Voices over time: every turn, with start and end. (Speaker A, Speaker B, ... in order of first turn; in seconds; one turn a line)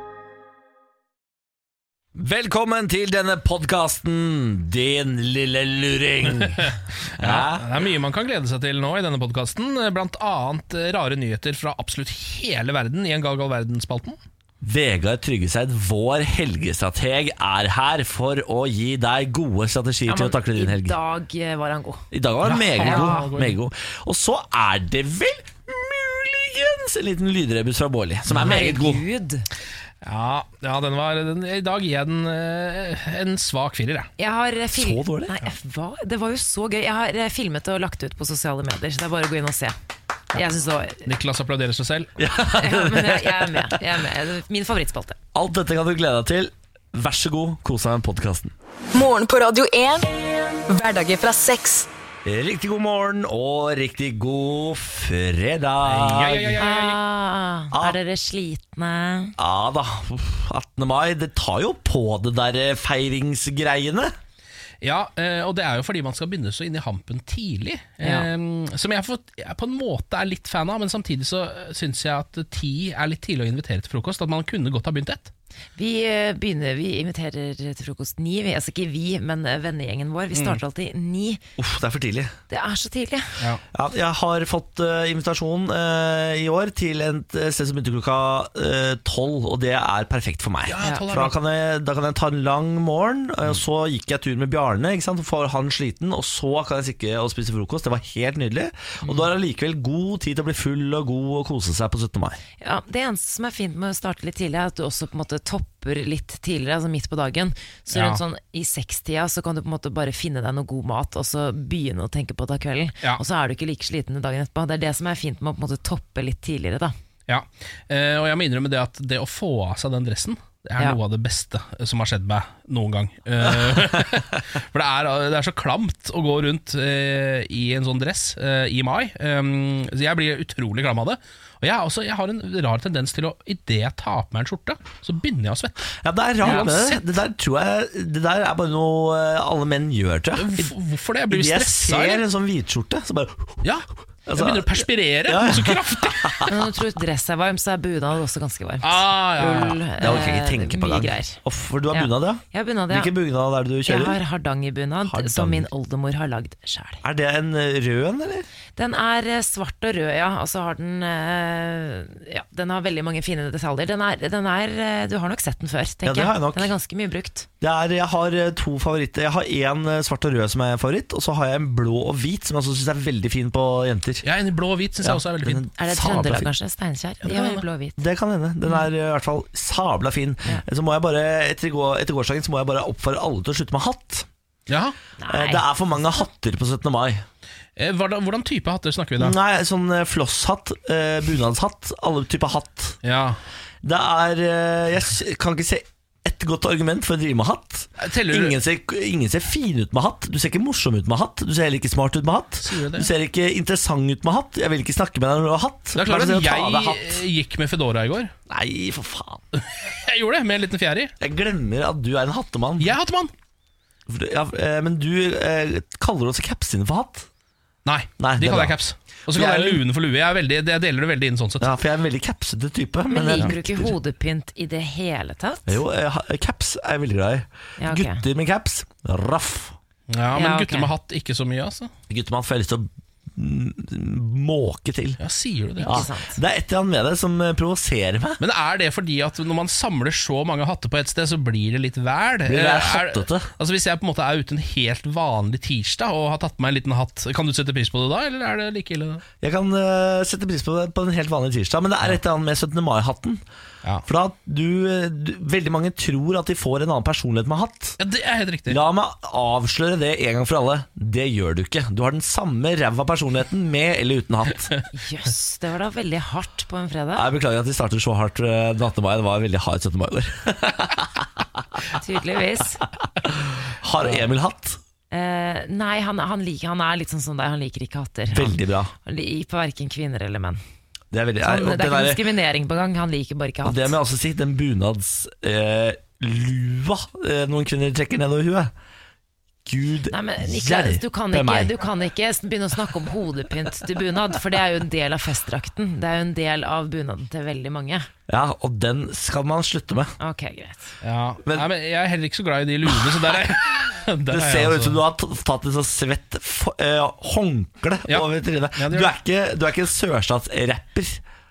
Speaker A: 2.1-7.8
Speaker B: 6.4-14.2
Speaker A: 14.6-21.0
Speaker C: 20.1-22.0
Speaker A: 22.1-29.0
Speaker B: 22.4-23.6
Speaker C: 22.8-23.3
Speaker B: 28.3-28.6
Speaker C: 28.4-29.5
Speaker B: 30.0-34.1
Speaker C: 34.2-39.8
Speaker A: 34.7-35.3
Speaker C: 40.3-41.1
Speaker B: 41.1-42.1
Speaker A: 42.2-43.8
Speaker C: 42.6-45.2
Speaker A: 45.3-48.5
Speaker D: 48.9-50.1
Speaker D: 50.7-51.9
Speaker A: 52.2-56.6
Speaker B: 55.9-57.0
Speaker C: 56.6-59.4
Speaker A: 57.7-58.0
Speaker A: 59.4-64.2
Speaker B: 64.8-75.3
Speaker C: 68.0-68.3
Speaker C: 75.8-81.4
Speaker B: 80.3-80.6
Speaker A: 81.6-82.3
Speaker C: 82.5-83.3
Speaker A: 83.7-102.4
Speaker B: 90.7-91.4
Speaker C: 102.6-116.9
Speaker B: 107.9-108.2
Speaker B: 117.3-137.1
Speaker A: 136.0-140.7
Speaker B: 140.4-142.2
Speaker A: 141.3-143.7
Speaker B: 143.6-146.4
Speaker A: 144.3-146.7
Speaker C: 146.5-151.4
Speaker B: 148.8-149.8
Speaker A: 150.0-154.2
Speaker C: 151.9-153.1
Speaker C: 153.8-157.0
Speaker A: 155.1-155.7
Speaker A: 157.0-158.5
Speaker C: 158.8-167.5
Speaker A: 166.1-166.7
Speaker A: 167.6-174.3
Speaker B: 174.2-175.6
Speaker A: 175.0-176.5
Speaker C: 175.8-178.0
Speaker A: 177.3-184.3
Speaker B: 184.7-184.9
Speaker C: 185.2-185.7
Speaker A: 185.3-187.2
Speaker B: 187.8-189.4
Speaker A: 189.2-193.0
Speaker B: 193.0-193.4
Speaker A: 193.8-207.2
Speaker B: 198.0-198.6
Speaker B: 202.6-203.1
Speaker B: 205.9-208.3
Speaker A: 208.5-209.4
Speaker B: 209.8-211.1
Speaker A: 211.2-213.0
Speaker B: 212.8-213.3
Speaker A: 214.1-217.3
Speaker B: 217.8-221.7
Speaker A: 218.2-218.8
Speaker A: 219.3-219.8
Speaker A: 221.6-223.9
Speaker C: 223.1-225.8
Speaker A: 225.7-229.8
Speaker C: 227.8-228.2
Speaker B: 230.1-231.9
Speaker C: 230.3-230.9
Speaker A: 232.1-235.2
Speaker B: 235.2-236.1
Speaker C: 235.8-236.4
Speaker A: 235.8-238.4
Speaker B: 238.4-249.2
Speaker A: 242.5-243.5
Speaker A: 249.4-253.4
Speaker A: 254.1-258.0
Speaker B: 258.0-258.8
Speaker A: 258.7-264.7
Speaker C: 264.9-267.3
Speaker A: 267.1-271.7
Speaker C: 271.9-272.8
Speaker A: 273.2-274.8
Speaker C: 275.1-280.6
Speaker A: 278.3-278.9
Speaker A: 281.1-282.2
Speaker C: 281.4-284.0
Speaker A: 283.6-288.7
Speaker A: 289.6-291.7
Speaker C: 290.1-298.1
Speaker A: 298.3-300.1
Speaker C: 300.2-300.9
Speaker B: 301.0-305.0
Speaker A: 304.3-311.2
Speaker B: 308.1-309.1